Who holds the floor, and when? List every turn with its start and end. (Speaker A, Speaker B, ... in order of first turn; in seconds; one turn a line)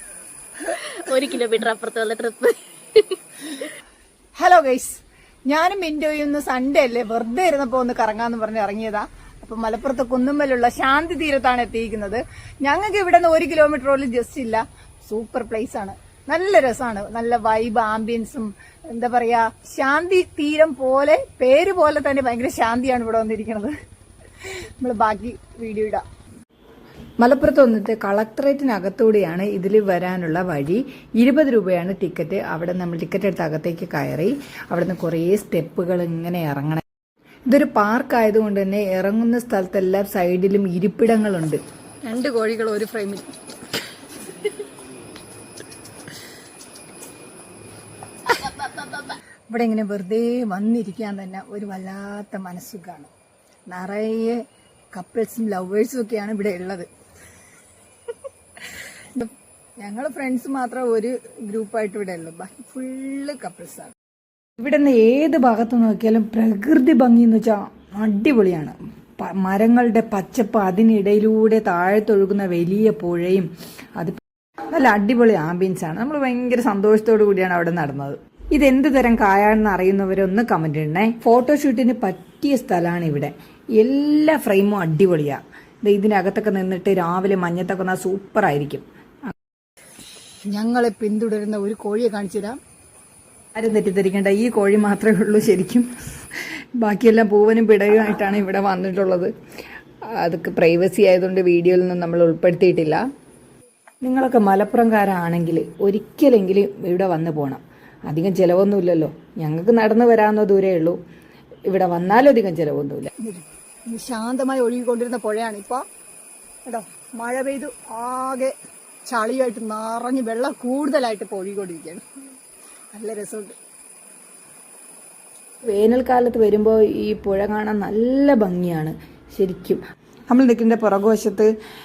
Speaker A: 0.8-3.0
Speaker B: 4.4-23.7
Speaker B: 24.5-26.0
Speaker C: 27.2-36.8
Speaker C: 37.5-41.6
Speaker B: 42.0-43.3
Speaker C: 49.5-52.2
Speaker B: 50.8-53.1
Speaker B: 53.7-54.0
Speaker C: 53.8-54.3
Speaker B: 54.9-56.9
Speaker C: 59.8-60.9
Speaker B: 60.4-63.9
Speaker C: 64.6-88.8
Speaker B: 90.5-92.6
Speaker C: 93.5-99.3
Speaker C: 100.2-103.0
Speaker C: 104.0-111.0
Speaker C: 111.7-113.1
Speaker B: 113.2-115.8
Speaker B: 116.7-118.5
Speaker B: 119.1-122.0
Speaker B: 122.9-123.5
Speaker C: 125.7-129.8
Speaker C: 130.3-131.5